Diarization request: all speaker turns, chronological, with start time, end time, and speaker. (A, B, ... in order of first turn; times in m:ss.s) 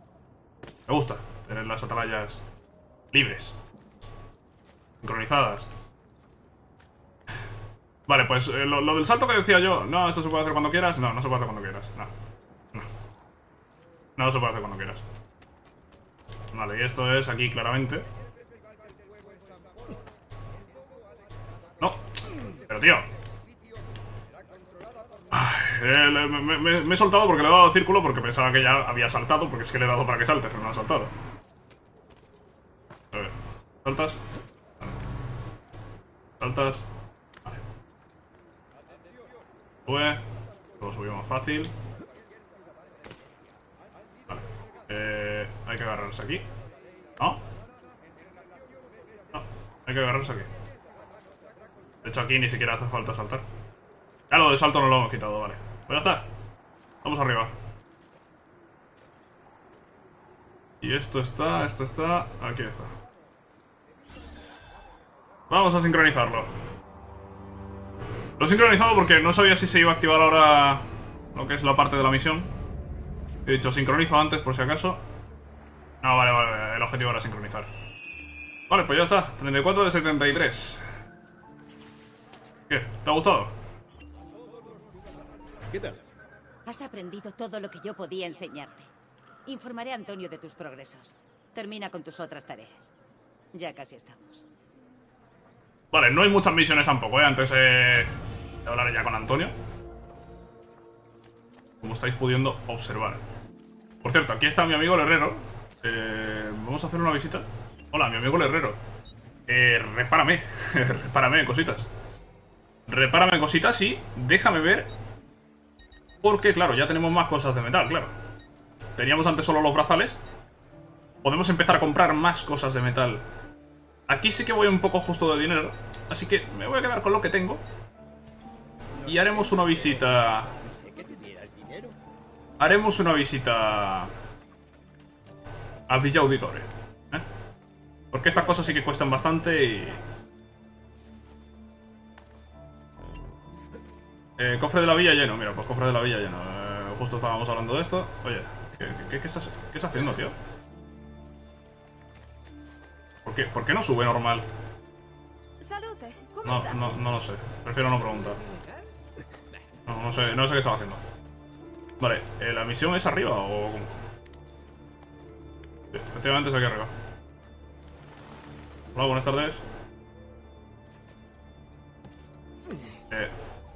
0:00.9-0:02.4 A
0:03.1-0:03.6 A
0:05.0-0:05.7 A
0:08.1-0:12.1 A
0:14.2-0:15.0 A
0:16.5-0:18.0 A
0:21.8-0:22.0 A
0:22.6-0:23.1 A
0:25.3-0:31.1 A
0:33.1-0:34.2 A
0:36.4-0:36.9 A
0:39.9-0:40.2 A
0:40.8-0:41.7 A
0:44.3-0:46.5 A
0:49.3-0:50.5 A
0:52.0-0:53.4 A
0:54.3-0:56.2 A
0:57.0-0:57.5 A
1:00.8-1:02.9 A
1:05.5-1:06.5 A
1:08.4-1:12.5 A
1:13.4-1:15.0 A
1:16.0-1:17.7 A
1:18.7-1:20.8 A
1:22.7-1:23.5 A
1:25.7-1:26.0 B
1:26.6-1:28.9 C
1:29.4-1:32.9 C
1:33.5-1:34.4 C
1:35.9-1:38.1 A
1:38.6-1:39.6 A
1:41.8-1:43.2 A
1:44.0-1:48.8 A
1:49.5-1:51.9 A
1:52.9-1:54.9 A
1:56.2-1:58.2 A
1:59.0-2:00.2 A
2:01.2-2:03.2 A
2:04.1-2:07.6 A
2:09.0-2:10.5 A
2:10.5-2:12.0 B
2:12.6-2:14.1 A
2:15.9-2:17.2 A
2:18.1-2:20.0 A
2:18.5-2:20.0 C
2:24.4-2:30.4 A
2:33.2-2:34.4 A
2:35.6-2:36.4 C
2:36.4-2:38.4 A
2:38.1-2:38.8 B
2:39.9-2:41.0 A
2:42.0-2:43.9 A
2:45.9-2:46.9 A
2:48.9-2:49.6 A